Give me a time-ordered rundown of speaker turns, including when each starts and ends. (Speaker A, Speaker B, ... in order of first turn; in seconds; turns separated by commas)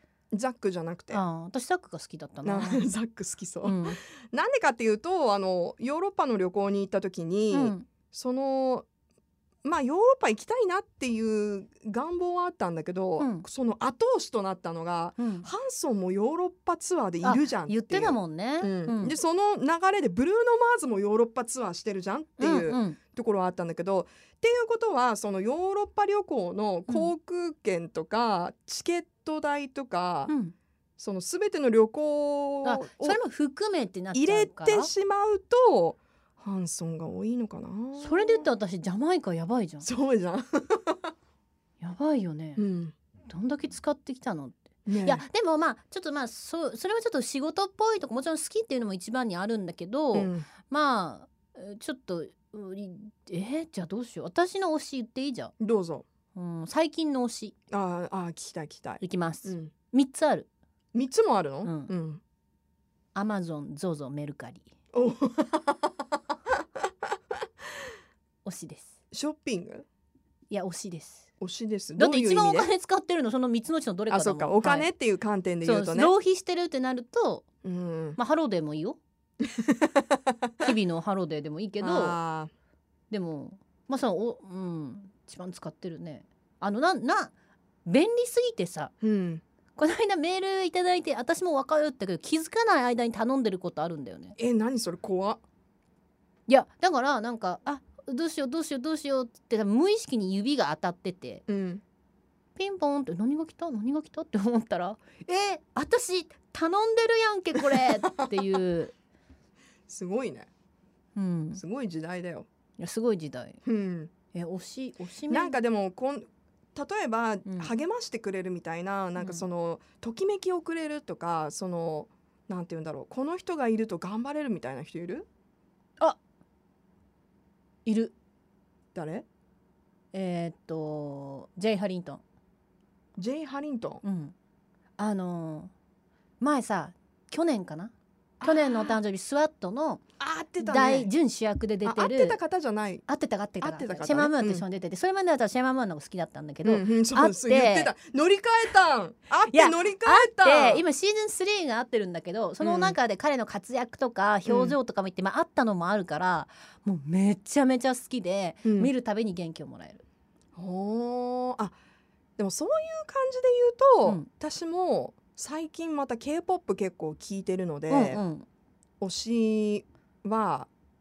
Speaker A: 0.3-1.2, Speaker B: 1.1-2.8, Speaker A: 2.4-8.9, Speaker B: 3.6-4.0, Speaker B: 7.5-7.9, Speaker A: 9.6-30.3, Speaker B: 13.2-13.5, Speaker B: 15.2-15.5, Speaker B: 17.2-19.1, Speaker B: 22.4-23.0, Speaker B: 30.3-30.5, Speaker A: 31.0-33.2, Speaker B: 32.6-34.9, Speaker A: 34.1-38.5, Speaker B: 38.0-39.9, Speaker A: 39.8-41.1, Speaker B: 41.8-42.6, Speaker A: 42.6-43.0, Speaker B: 43.3-55.5, Speaker A: 44.9-45.2, Speaker A: 50.1-50.5, Speaker A: 55.6-56.0, Speaker B: 56.3-57.5, Speaker A: 57.7-59.7, Speaker B: 59.0-60.5, Speaker A: 60.9-62.2, Speaker B: 61.6-61.9, Speaker B: 63.1-64.7, Speaker A: 64.9-65.9, Speaker B: 68.4-68.9, Speaker A: 69.1-69.8, Speaker B: 70.5-71.3, Speaker A: 71.4-72.7, Speaker B: 71.9-74.9, Speaker A: 74.1-76.1, Speaker B: 75.6-77.4, Speaker A: 77.6-78.2, Speaker B: 78.2-79.0, Speaker A: 79.4-80.6, Speaker B: 80.6-82.2, Speaker A: 81.8-82.5, Speaker B: 83.1-87.3, Speaker B: 87.8-88.9, Speaker A: 89.0-89.4, Speaker B: 89.8-94.3, Speaker A: 94.4-95.4, Speaker B: 96.5-101.4, Speaker A: 101.5-101.8, Speaker B: 102.5-108.9, Speaker A: 108.1-108.3, Speaker A: 109.9-110.5, Speaker B: 111.2-111.6, Speaker A: 111.5-112.5, Speaker B: 112.8-113.6, Speaker A: 113.6-114.1, Speaker B: 114.3-115.6, Speaker A: 115.3-125.3, Speaker B: 117.5-117.7, Speaker B: 119.2-119.4, Speaker B: 127.8-128.1, Speaker A: 128.9-129.3, Speaker B: 130.1-132.2, Speaker A: 133.2-134.0, Speaker B: 134.0-134.3, Speaker B: 135.0-135.7, Speaker B: 136.4-137.9, Speaker A: 138.4-139.0, Speaker B: 138.4-140.0, Speaker A: 140.2-141.1, Speaker B: 140.6-142.4, Speaker A: 141.8-143.0, Speaker B: 143.1-147.9, Speaker A: 143.6-144.6, Speaker A: 146.6-150.8, Speaker B: 149.5-160.0, Speaker A: 152.6-152.9, Speaker A: 154.4-154.8, Speaker A: 158.6-158.9, Speaker A: 160.6-161.8, Speaker A: 162.4-168.2, Speaker B: 167.9-168.5, Speaker A: 169.0-170.7